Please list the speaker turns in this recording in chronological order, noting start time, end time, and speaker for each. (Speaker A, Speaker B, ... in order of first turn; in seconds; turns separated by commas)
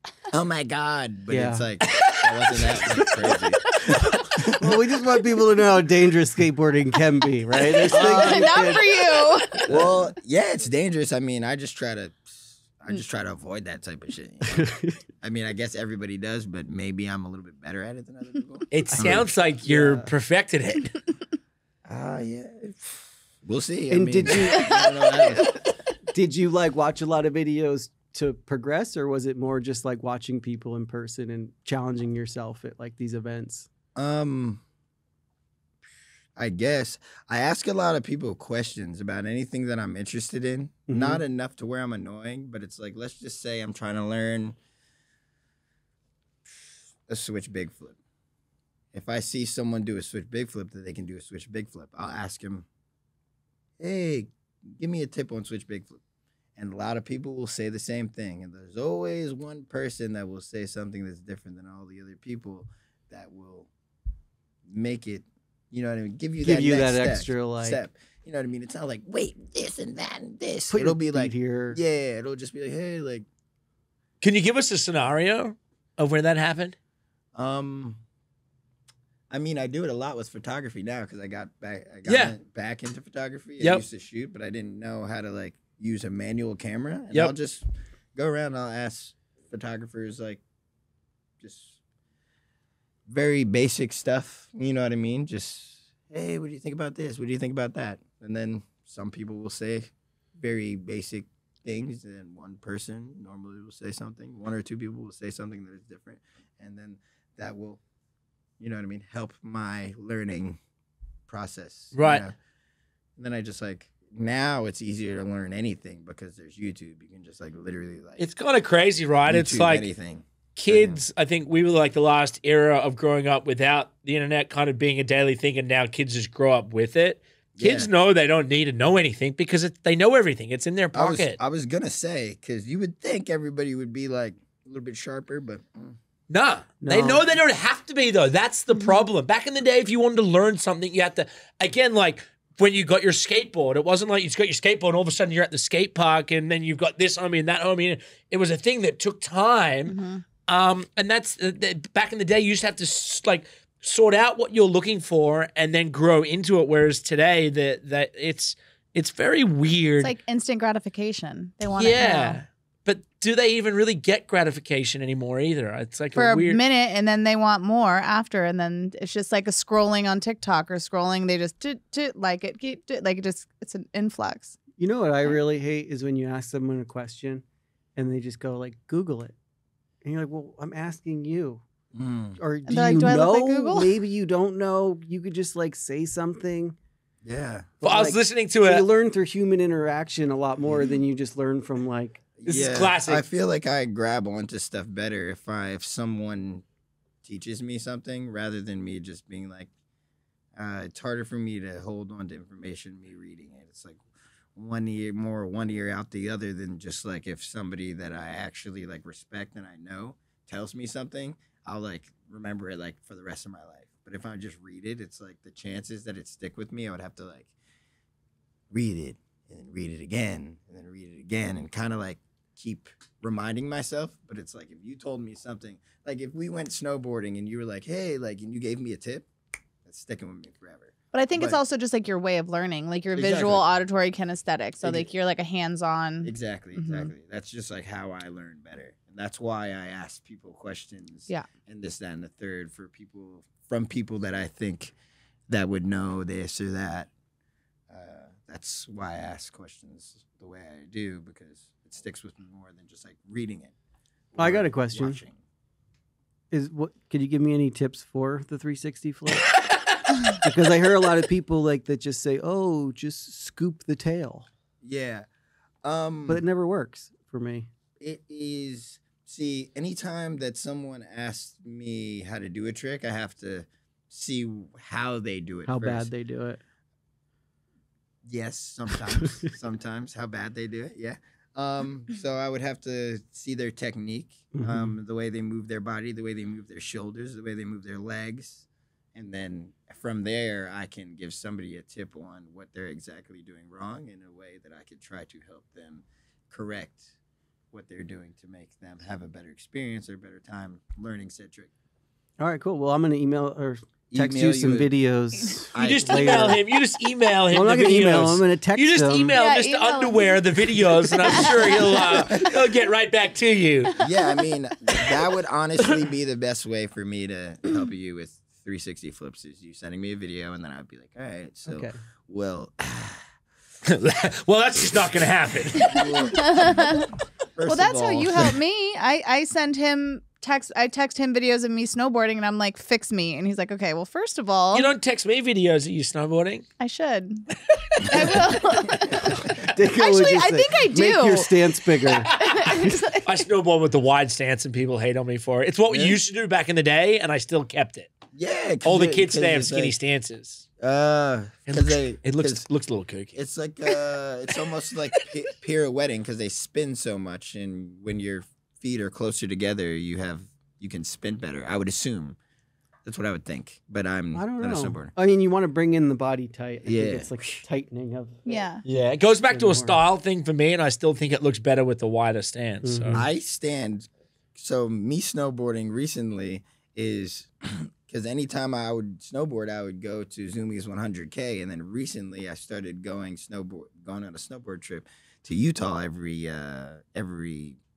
Speaker A: 0.3-4.9, Speaker B: 1.3-1.6, Speaker B: 2.6-3.4, Speaker B: 3.9-8.8, Speaker C: 7.6-9.7, Speaker A: 7.9-8.5, Speaker A: 9.7-20.0, Speaker B: 14.5-15.0, Speaker D: 18.7-21.0, Speaker B: 18.9-20.0, Speaker A: 21.9-25.6, Speaker B: 23.9-24.9, Speaker B: 26.1-33.7, Speaker A: 34.0-34.6, Speaker A: 36.4-44.6, Speaker B: 40.9-41.2, Speaker A: 46.5-48.0, Speaker A: 48.9-52.6, Speaker A: 53.8-56.0, Speaker A: 56.6-63.7, Speaker A: 64.7-73.2, Speaker B: 66.4-67.8, Speaker B: 70.7-71.8, Speaker D: 74.2-76.8, Speaker A: 77.3-78.0, Speaker A: 79.3-90.4, Speaker D: 82.0-82.3, Speaker A: 91.4-91.8, Speaker A: 93.1-107.8, Speaker A: 108.6-110.6, Speaker A: 111.3-112.3, Speaker D: 111.9-112.2, Speaker A: 113.2-118.3, Speaker D: 118.2-119.9, Speaker A: 119.2-121.0, Speaker D: 120.5-131.4, Speaker A: 127.5-127.9, Speaker A: 130.9-136.0, Speaker D: 136.3-149.9, Speaker B: 136.8-137.3, Speaker C: 149.9-150.2, Speaker D: 150.4-160.1, Speaker C: 160.0-162.4, Speaker D: 161.7-166.6, Speaker C: 166.2-174.6, Speaker B: 174.8-177.4, Speaker B: 177.9-179.3, Speaker B: 180.0-181.6, Speaker A: 181.9-182.4, Speaker B: 182.4-186.8, Speaker C: 182.7-183.9, Speaker A: 187.2-187.7, Speaker D: 187.8-188.8, Speaker B: 187.8-192.9, Speaker A: 190.6-191.0, Speaker A: 192.4-196.6, Speaker D: 192.5-193.2, Speaker A: 197.2-199.7, Speaker A: 200.6-204.0, Speaker A: 204.5-217.5, Speaker A: 218.7-229.3, Speaker A: 229.8-231.6, Speaker C: 231.1-237.1, Speaker A: 233.2-233.6, Speaker A: 234.8-235.1, Speaker A: 236.2-244.9, Speaker A: 245.5-247.1, Speaker A: 247.9-253.7, Speaker A: 254.3-255.4, Speaker B: 254.4-255.2, Speaker B: 256.5-259.6, Speaker B: 260.4-264.5, Speaker A: 264.8-265.3, Speaker A: 265.8-266.4, Speaker B: 266.3-267.7, Speaker A: 268.0-276.1, Speaker B: 275.6-276.6, Speaker A: 278.2-297.1, Speaker B: 279.1-279.4, Speaker B: 284.5-284.9, Speaker A: 297.7-301.7, Speaker B: 302.4-306.6, Speaker A: 304.1-304.9, Speaker A: 305.7-306.4, Speaker D: 305.7-313.9, Speaker B: 307.5-309.4, Speaker C: 309.3-312.4, Speaker C: 313.9-314.4, Speaker A: 314.0-323.2, Speaker B: 321.7-322.0, Speaker D: 323.8-326.0, Speaker A: 325.7-328.6, Speaker C: 325.9-327.1, Speaker C: 327.6-334.9, Speaker D: 334.7-336.6, Speaker C: 336.8-343.4, Speaker D: 338.0-338.4, Speaker A: 339.0-339.5, Speaker B: 339.6-343.0, Speaker D: 342.3-348.1, Speaker A: 345.9-346.2, Speaker A: 348.3-349.9, Speaker D: 348.8-350.6, Speaker A: 350.8-352.6, Speaker D: 351.7-353.4, Speaker A: 353.3-362.4, Speaker A: 363.0-365.1, Speaker B: 364.3-368.6, Speaker A: 366.8-367.3, Speaker C: 368.4-368.8, Speaker D: 368.9-373.2, Speaker B: 369.5-370.0, Speaker B: 372.8-373.2, Speaker A: 373.1-387.8